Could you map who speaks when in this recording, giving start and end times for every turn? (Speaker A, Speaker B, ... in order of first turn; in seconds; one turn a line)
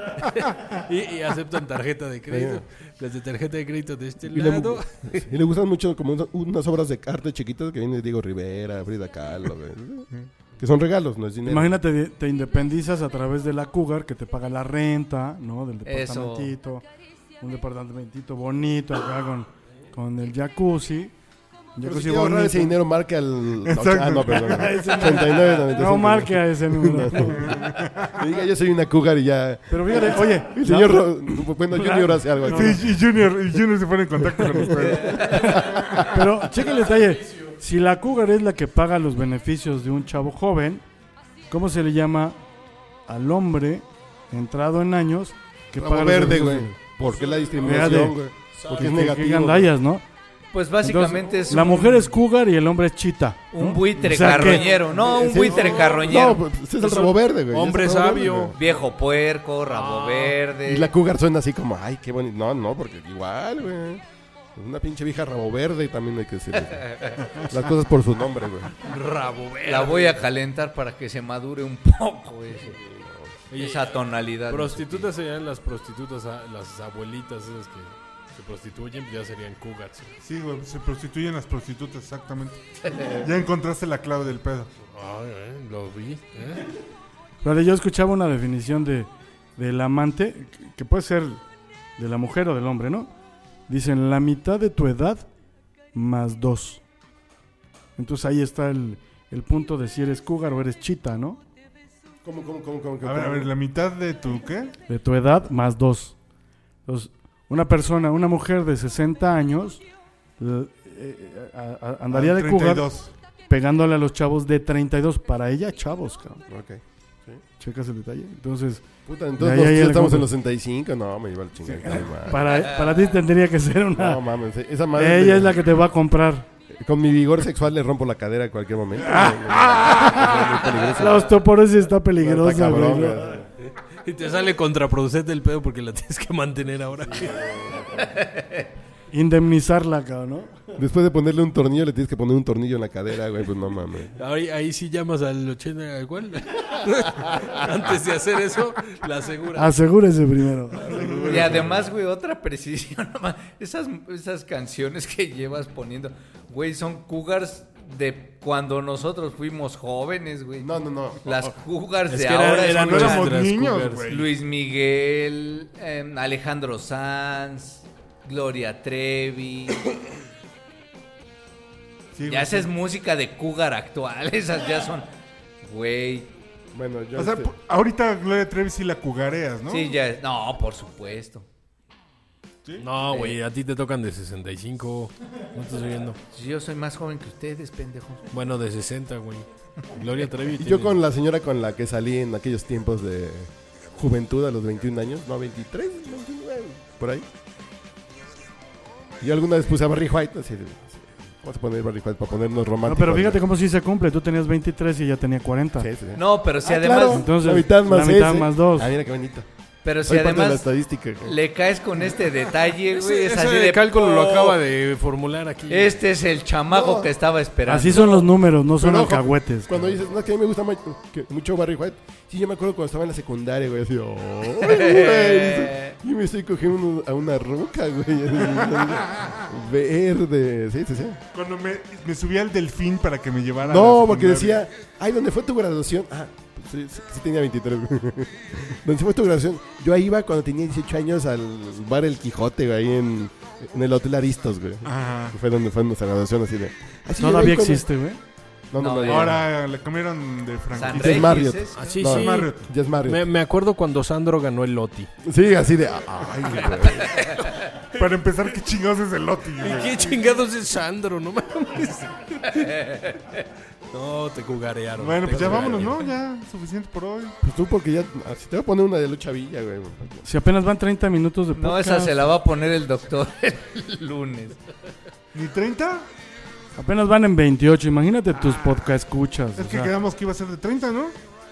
Speaker A: 0.1-5.3
Speaker B: 2.3-2.6
Speaker B: 4.3-11.8
Speaker C: 11.5-16.9
Speaker D: 15.9-16.5
Speaker C: 17.4-21.1
Speaker C: 21.8-22.8
Speaker B: 21.8-33.0
Speaker E: 23.6-24.7
Speaker C: 24.4-27.6
Speaker E: 27.3-28.2
Speaker C: 29.7-32.8
Speaker E: 32.5-36.1
Speaker B: 34.6-36.1
Speaker C: 36.0-40.8
Speaker C: 41.5-42.4
Speaker C: 43.1-46.8
Speaker B: 45.8-49.7
Speaker A: 47.0-48.0
Speaker C: 47.6-48.2
Speaker A: 48.6-49.0
Speaker C: 48.7-50.0
Speaker D: 50.5-52.1
Speaker C: 50.8-54.6
Speaker D: 53.5-56.4
Speaker A: 54.4-58.8
Speaker B: 54.9-58.6
Speaker D: 58.5-60.9
Speaker A: 59.7-60.4
Speaker B: 60.6-64.0
Speaker B: 64.5-68.7
Speaker D: 66.8-67.3
Speaker A: 68.8-70.2
Speaker D: 69.7-72.8
Speaker B: 72.7-73.4
Speaker A: 73.5-80.2
Speaker D: 73.5-75.1
Speaker E: 80.2-84.7
Speaker A: 84.9-86.7
Speaker C: 87.4-91.4
Speaker C: 92.0-93.1
Speaker C: 93.7-95.3
Speaker C: 95.9-96.8
Speaker C: 98.0-101.4
Speaker B: 102.2-103.5
Speaker E: 103.0-104.8
Speaker C: 104.9-106.2
Speaker C: 106.9-109.8
Speaker C: 110.4-112.9
Speaker E: 112.1-113.1
Speaker C: 113.5-116.4
Speaker B: 116.5-117.4
Speaker C: 117.6-120.3
Speaker B: 119.1-122.6
Speaker C: 121.7-124.2
Speaker D: 122.6-123.0
Speaker B: 123.9-125.6
Speaker C: 125.0-126.5
Speaker B: 126.7-131.3
Speaker C: 130.9-133.3
Speaker B: 132.2-133.5
Speaker A: 133.7-137.5
Speaker B: 137.1-138.1
Speaker D: 138.2-138.7
Speaker C: 139.1-140.6
Speaker B: 140.8-144.1
Speaker A: 144.2-149.8
Speaker C: 149.6-151.0
Speaker B: 150.9-151.8
Speaker E: 151.0-151.5
Speaker D: 151.2-160.7
Speaker B: 160.6-161.5
Speaker D: 161.2-163.4
Speaker A: 162.1-164.1
Speaker E: 162.7-164.3
Speaker D: 164.1-169.9
Speaker E: 172.2-172.7
Speaker D: 172.3-175.1
Speaker D: 175.6-176.3
Speaker B: 176.7-177.5
Speaker E: 177.2-180.0
Speaker D: 179.7-181.4
Speaker A: 182.8-186.2
Speaker D: 183.1-183.4
Speaker D: 186.3-188.3
Speaker A: 188.3-191.0
Speaker B: 190.6-197.3
Speaker B: 199.2-203.4
Speaker C: 202.8-205.9
Speaker B: 205.8-209.5
Speaker D: 206.2-207.2
Speaker C: 207.1-208.9
Speaker D: 209.8-210.7
Speaker B: 210.0-211.3
Speaker D: 211.2-214.6
Speaker A: 212.9-216.0
Speaker D: 215.7-218.2
Speaker B: 216.7-217.1
Speaker C: 217.7-220.0
Speaker B: 218.8-231.2
Speaker D: 224.6-226.0
Speaker E: 231.3-234.6
Speaker B: 233.6-247.9
Speaker E: 244.9-245.4
Speaker C: 247.2-248.2
Speaker B: 248.7-249.5
Speaker D: 248.8-249.4
Speaker E: 249.1-251.5
Speaker D: 250.7-252.0
Speaker B: 250.9-253.3
Speaker A: 251.8-255.1
Speaker E: 252.0-252.7
Speaker B: 255.2-257.2
Speaker D: 257.0-257.3
Speaker A: 257.1-258.0
Speaker E: 257.9-260.2
Speaker A: 259.6-263.0
Speaker D: 262.6-263.1
Speaker A: 263.9-266.1
Speaker E: 265.0-267.4
Speaker B: 267.4-270.3
Speaker C: 270.2-272.3
Speaker D: 271.6-274.6
Speaker E: 275.3-276.1
Speaker C: 276.8-279.9
Speaker E: 279.6-281.1